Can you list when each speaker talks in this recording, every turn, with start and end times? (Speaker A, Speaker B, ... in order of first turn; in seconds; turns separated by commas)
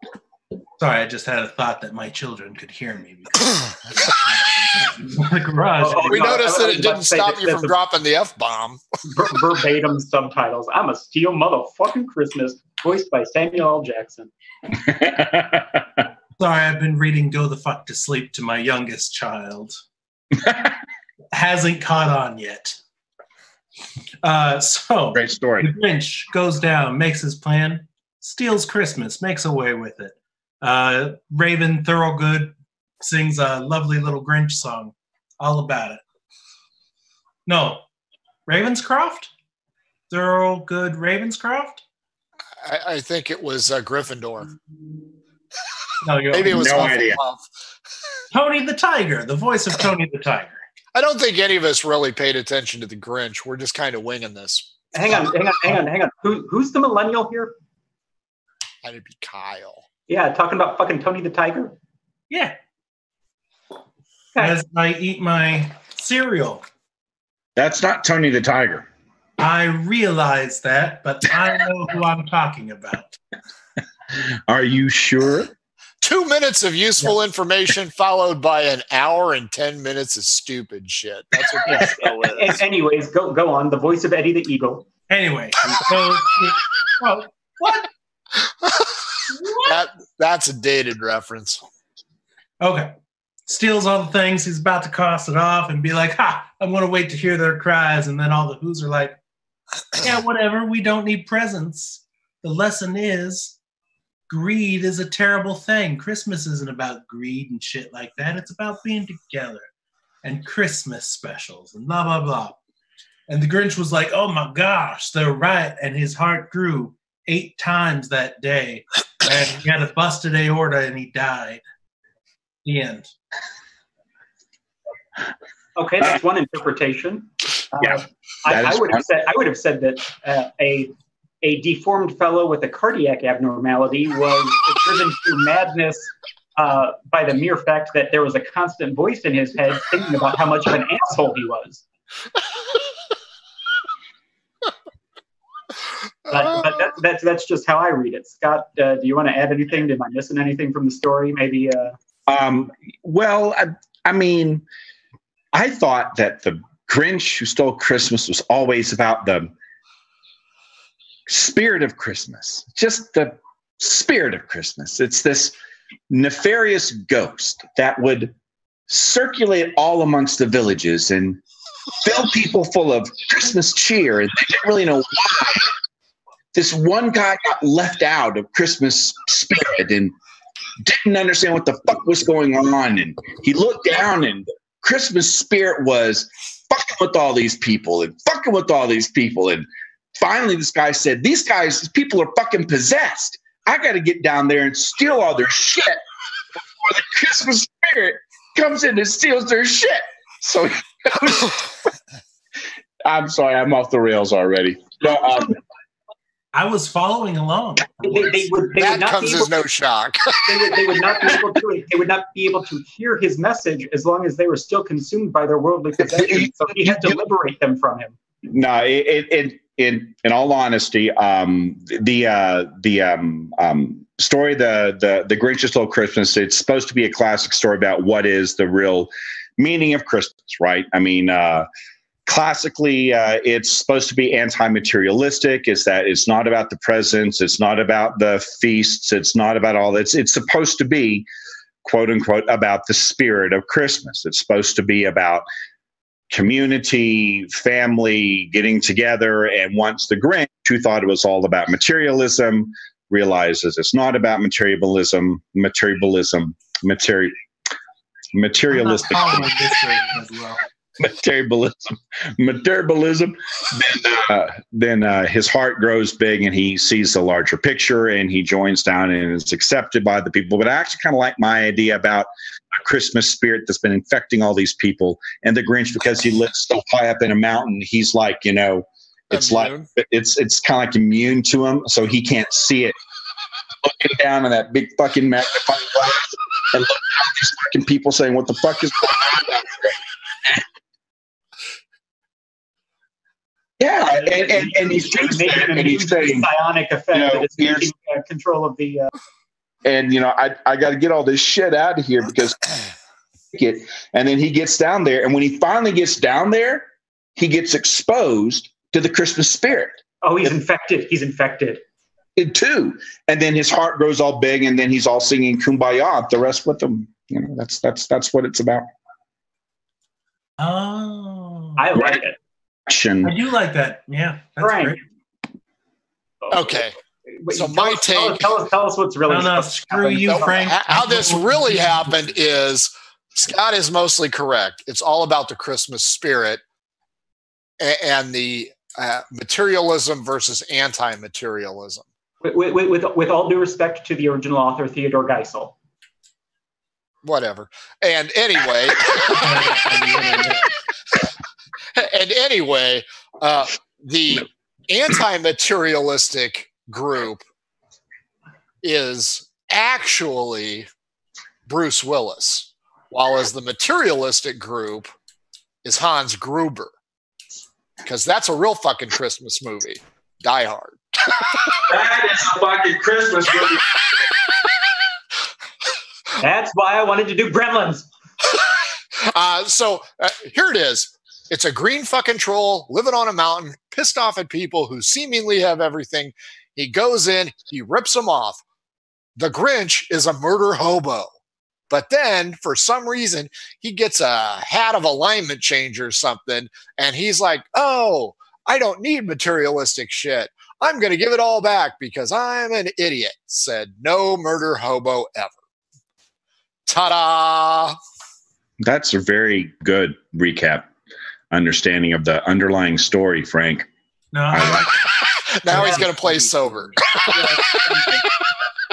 Speaker A: 0.8-6.3, Speaker B: 5.8-7.8, Speaker C: 6.0-8.8, Speaker B: 9.1-14.3, Speaker D: 14.8-16.0, Speaker A: 16.4-19.8, Speaker A: 21.3-22.8, Speaker A: 24.2-36.0, Speaker D: 25.1-25.7, Speaker A: 37.5-37.8, Speaker A: 38.5-39.3, Speaker A: 40.1-41.8, Speaker C: 42.6-44.5, Speaker A: 46.0-46.9, Speaker C: 46.3-47.5, Speaker D: 46.5-47.2, Speaker A: 48.3-50.6, Speaker C: 50.9-54.7, Speaker B: 54.9-57.5, Speaker C: 58.8-59.9, Speaker B: 60.1-61.8, Speaker A: 62.3-62.5, Speaker A: 64.4-66.6, Speaker D: 67.6-68.9, Speaker A: 69.4-73.2, Speaker D: 74.5-75.5, Speaker C: 76.0-82.2, Speaker B: 81.6-84.9, Speaker A: 85.1-87.9, Speaker C: 88.6-89.0, Speaker A: 89.3-89.8, Speaker C: 89.6-91.6, Speaker A: 92.6-92.9, Speaker A: 93.5-99.2, Speaker A: 99.9-103.6, Speaker A: 104.3-109.7, Speaker A: 110.2-112.6, Speaker A: 113.3-121.6, Speaker A: 122.7-123.1, Speaker B: 125.8-141.8, Speaker D: 127.8-129.0, Speaker B: 146.3-152.0, Speaker D: 152.3-154.7, Speaker D: 155.5-159.5, Speaker D: 161.3-165.6, Speaker D: 166.1-168.3, Speaker D: 168.9-171.4, Speaker D: 172.0-175.7, Speaker D: 176.5-180.1, Speaker D: 180.8-189.7, Speaker D: 190.2-196.0, Speaker D: 196.8-201.6, Speaker D: 203.1-205.6, Speaker A: 206.5-208.4, Speaker B: 208.1-209.6, Speaker C: 208.8-210.6, Speaker B: 210.4-218.1, Speaker D: 216.0-217.2, Speaker D: 218.5-231.7, Speaker D: 232.3-241.3, Speaker D: 241.8-245.4, Speaker D: 246.3-257.3, Speaker D: 258.3-259.5, Speaker A: 258.7-260.6, Speaker D: 261.0-282.9, Speaker C: 279.3-279.8, Speaker D: 283.8-290.6, Speaker D: 293.8-296.5, Speaker B: 294.1-299.1, Speaker D: 297.1-297.9, Speaker D: 299.9-302.7, Speaker D: 303.5-310.0, Speaker B: 310.2-311.8, Speaker D: 312.4-318.9, Speaker A: 320.6-321.8, Speaker B: 321.8-322.4, Speaker D: 322.9-323.3, Speaker A: 323.2-325.0, Speaker B: 324.6-325.0, Speaker B: 326.4-330.7, Speaker C: 326.5-326.9, Speaker C: 327.5-328.5, Speaker A: 329.3-332.3, Speaker C: 330.3-336.6, Speaker C: 337.8-342.1, Speaker B: 342.4-345.8, Speaker C: 347.2-349.8, Speaker A: 349.3-350.7, Speaker C: 351.9-357.4, Speaker C: 358.8-360.9, Speaker C: 361.7-365.1, Speaker C: 365.8-366.9, Speaker C: 368.0-371.4, Speaker D: 371.9-373.9, Speaker B: 376.4-378.1, Speaker C: 379.2-388.6, Speaker C: 389.4-391.3, Speaker C: 391.9-405.6, Speaker C: 406.9-408.0, Speaker D: 408.8-410.9, Speaker D: 411.5-413.9, Speaker A: 414.3-414.9, Speaker D: 414.5-414.9, Speaker C: 415.5-417.0, Speaker A: 415.7-416.1, Speaker B: 415.7-416.2, Speaker B: 417.2-418.3